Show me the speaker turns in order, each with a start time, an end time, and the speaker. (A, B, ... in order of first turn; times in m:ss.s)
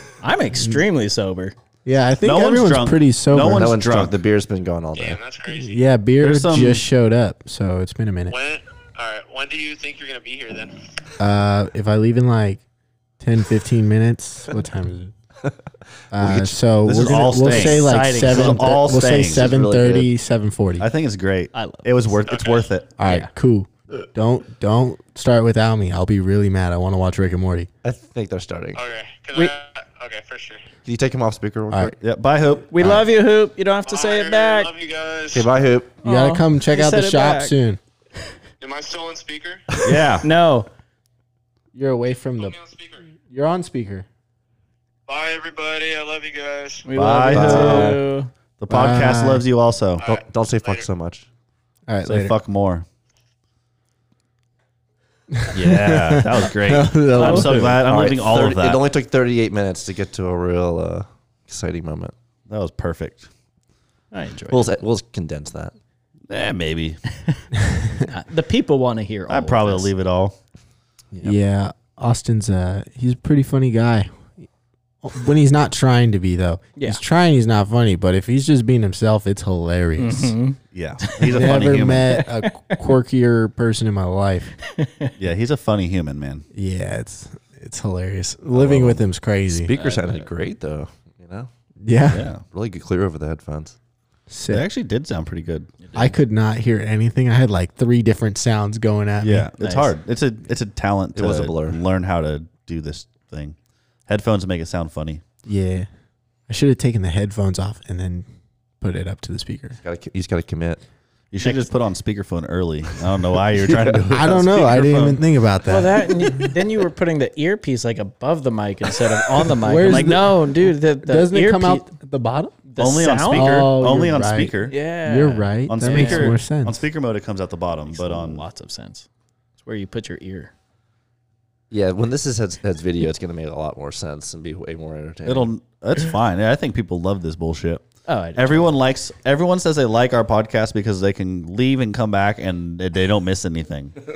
0:00.2-0:01.6 A
0:00.6-0:00.8 B
0:01.8-0:03.8 B
0:02.2-0:04.2 C
0:03.5-0:05.2 D
0:05.0-0:05.8 E
0:05.5-0:08.4 B
0:06.2-0:06.8 C
0:08.3-0:10.9 E
0:11.2-0:12.6 B
0:13.2-0:15.1 B
0:16.1-0:20.9 B
0:16.2-0:16.6 D
0:16.8-0:19.5 C
0:17.4-0:19.1 A
0:19.2-0:20.1 D
0:20.8-0:22.9 C
0:21.5-0:22.1 A
0:22.3-0:22.7 E
0:23.0-0:27.7 B
0:23.0-0:23.3 A
0:27.8-0:28.8 D
0:28.8-0:30.6 E
0:30.8-0:32.0 D
0:31.7-0:32.0 B
0:32.0-0:32.7 C
0:32.7-0:34.7 A
0:32.8-0:33.0 B
0:33.9-0:35.5 E
0:35.3-0:36.0 D
0:36.0-0:37.6 A
0:36.0-0:37.8 B
0:38.6-0:39.6 E
0:39.8-0:40.0 D
0:39.8-0:40.3 C
0:40.2-0:40.7 A
0:41.7-0:42.6 B
0:42.4-0:43.1 E
0:43.2-0:44.1 B
0:45.1-0:46.9 E
0:46.8-0:48.3 A
0:47.0-0:48.0 C
0:47.3-0:48.0 D
0:48.6-0:50.0 C
0:48.7-0:49.4 B
0:50.0-0:50.9 E
0:50.0-0:51.2 D
0:51.9-0:52.4 B
0:52.0-0:52.8 C
0:55.4-0:57.8 B
0:55.5-0:58.8 C
0:57.2-0:57.6 A
0:57.6-1:02.1 D
1:02.5-1:03.3 C
1:04.1-1:04.7 A
1:04.5-1:05.7 D
1:06.3-1:07.0 C
1:08.0-1:09.9 A
1:09.3-1:10.4 C
1:11.1-1:14.3 B
1:15.0-1:20.4 B
1:16.8-1:17.0 A
1:20.0-1:21.6 A
1:20.7-1:22.2 C
1:21.2-1:24.6 B
1:22.1-1:22.8 A
1:24.7-1:25.1 A
1:25.2-1:26.5 C
1:26.5-1:29.7 B
1:28.5-1:29.0 D
1:29.5-1:31.5 D
1:29.8-1:30.3 A
1:31.8-1:32.3 B
1:32.1-1:32.4 C
1:32.5-1:33.8 D
1:34.3-1:34.7 B
1:34.5-1:35.7 C
1:35.8-1:36.2 A
1:36.0-1:39.5 B
1:39.2-1:43.6 C
1:39.6-1:39.9 A
1:41.2-1:41.8 D
1:44.1-1:45.2 C
1:45.4-1:45.9 B
1:46.5-1:48.3 B
1:48.8-1:49.8 B
1:49.8-1:50.8 D
1:51.3-1:55.2 C
1:51.4-1:51.7 A
1:53.6-1:54.0 D
1:54.1-1:56.5 B
1:55.6-2:01.9 A
1:59.5-2:02.6 B
2:02.7-2:03.6 A
2:02.8-2:04.8 C
2:03.3-2:06.8 B
2:04.7-2:06.4 A
2:05.7-2:08.4 C
2:07.9-2:09.1 A
2:09.6-2:10.5 A
2:11.7-2:15.5 D
2:15.3-2:24.0 C
2:18.1-2:18.7 A